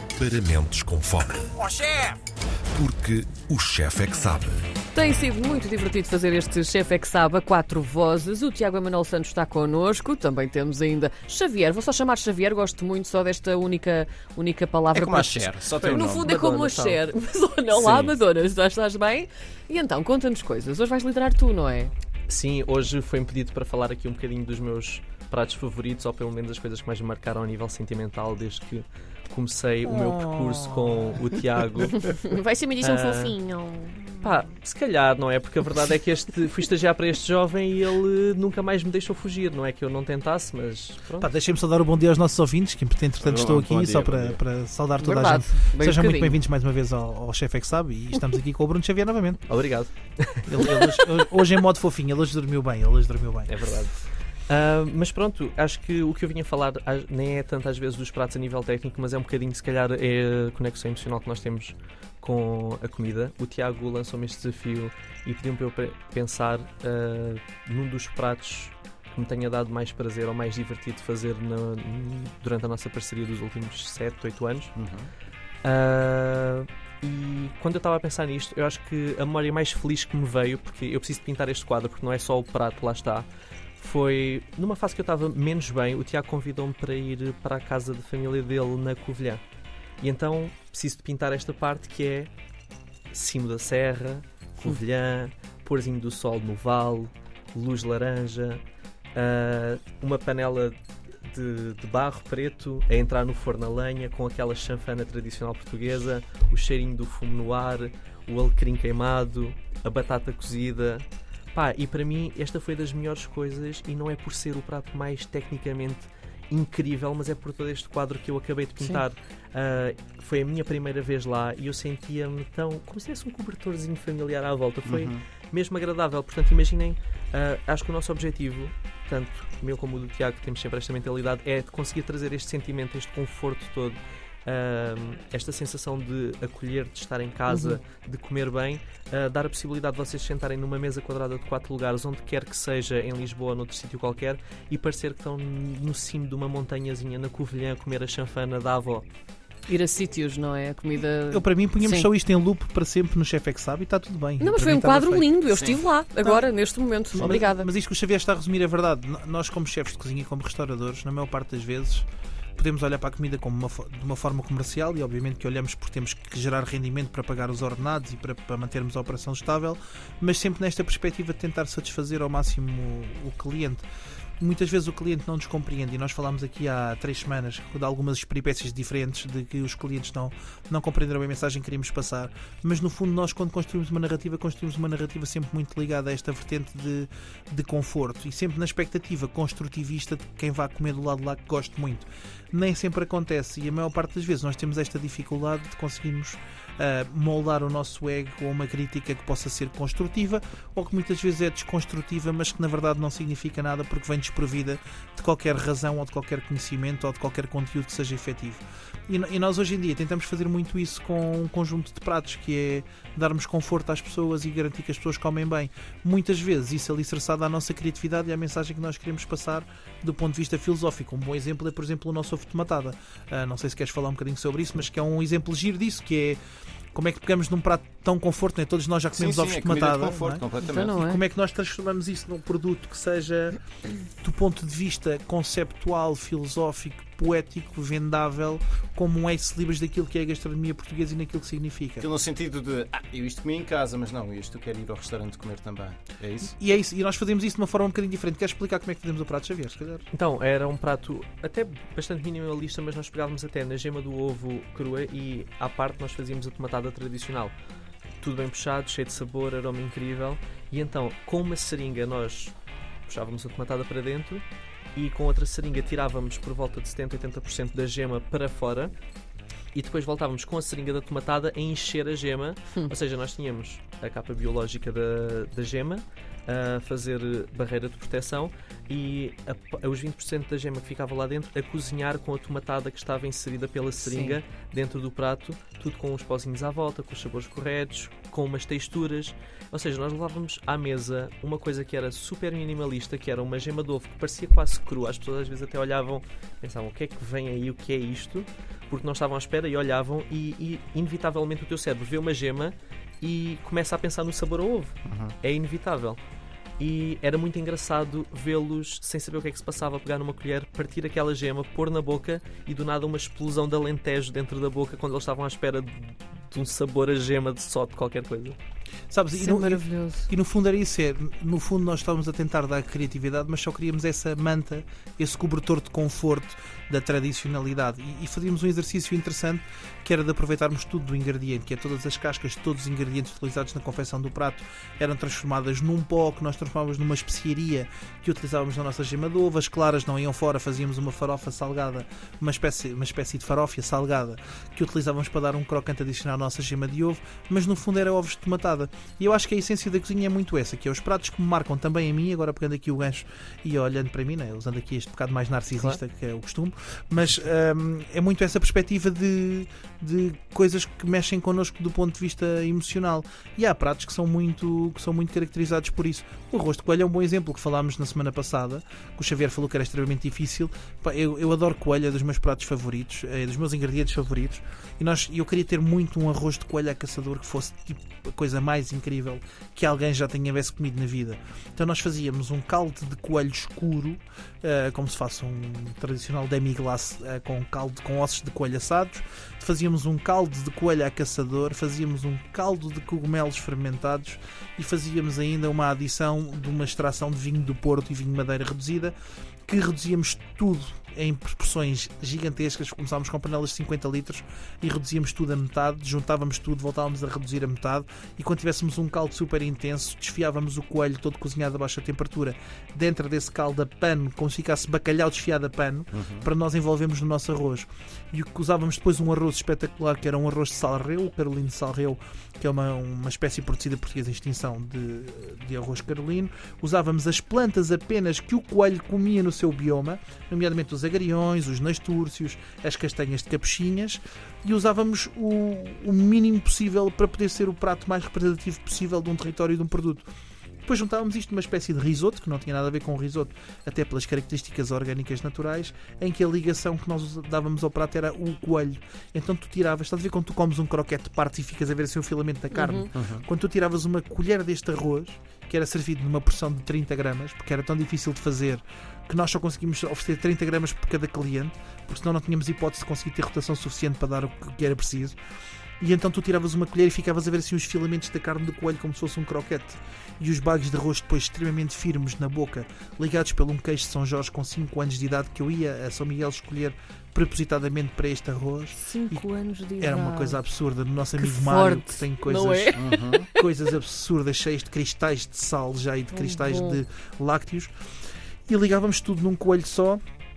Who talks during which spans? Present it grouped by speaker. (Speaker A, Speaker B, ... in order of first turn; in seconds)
Speaker A: 0.2-1.5, 2.8-4.6
Speaker B: 1.6-2.0, 14.9-16.4, 17.8-18.1, 43.2-44.4, 74.8-75.1, 124.8-125.2, 155.5-155.9, 157.2-157.4, 229.1-231.0, 242.0-246.6, 305.1-305.4, 416.1-416.5, 453.1-453.4, 482.9-483.5
Speaker C: 4.9-21.9, 32.1-34.1, 45.0-46.4, 137.5-137.8, 149.7-152.1, 154.4-157.7, 230.6-231.2, 284.0-284.4, 319.4-320.3, 452.7-453.1, 479.0-480.6, 481.4-483.7, 486.3-487.0
Speaker D: 15.8-17.0, 22.3-32.2, 32.8-33.4, 34.2-41.3, 49.5-51.1, 53.5-74.7, 75.6-83.3, 83.8-89.4, 90.0-92.3, 93.1-98.6, 99.2-149.1, 250.1-257.5, 258.2-262.5, 263.1-264.4, 264.9-268.9, 269.7-306.2, 306.8-318.6
Speaker E: 29.9-31.2, 41.2-49.5, 50.5-53.5, 151.3-155.4, 156.2-156.4, 157.1-173.8, 174.4-226.4, 226.9-233.6, 234.2-242.1, 246.5-250.1, 319.1-399.1, 399.7-440.3, 440.9-465.4, 466.0-479.5, 480.0-487.9, 488.7-490.2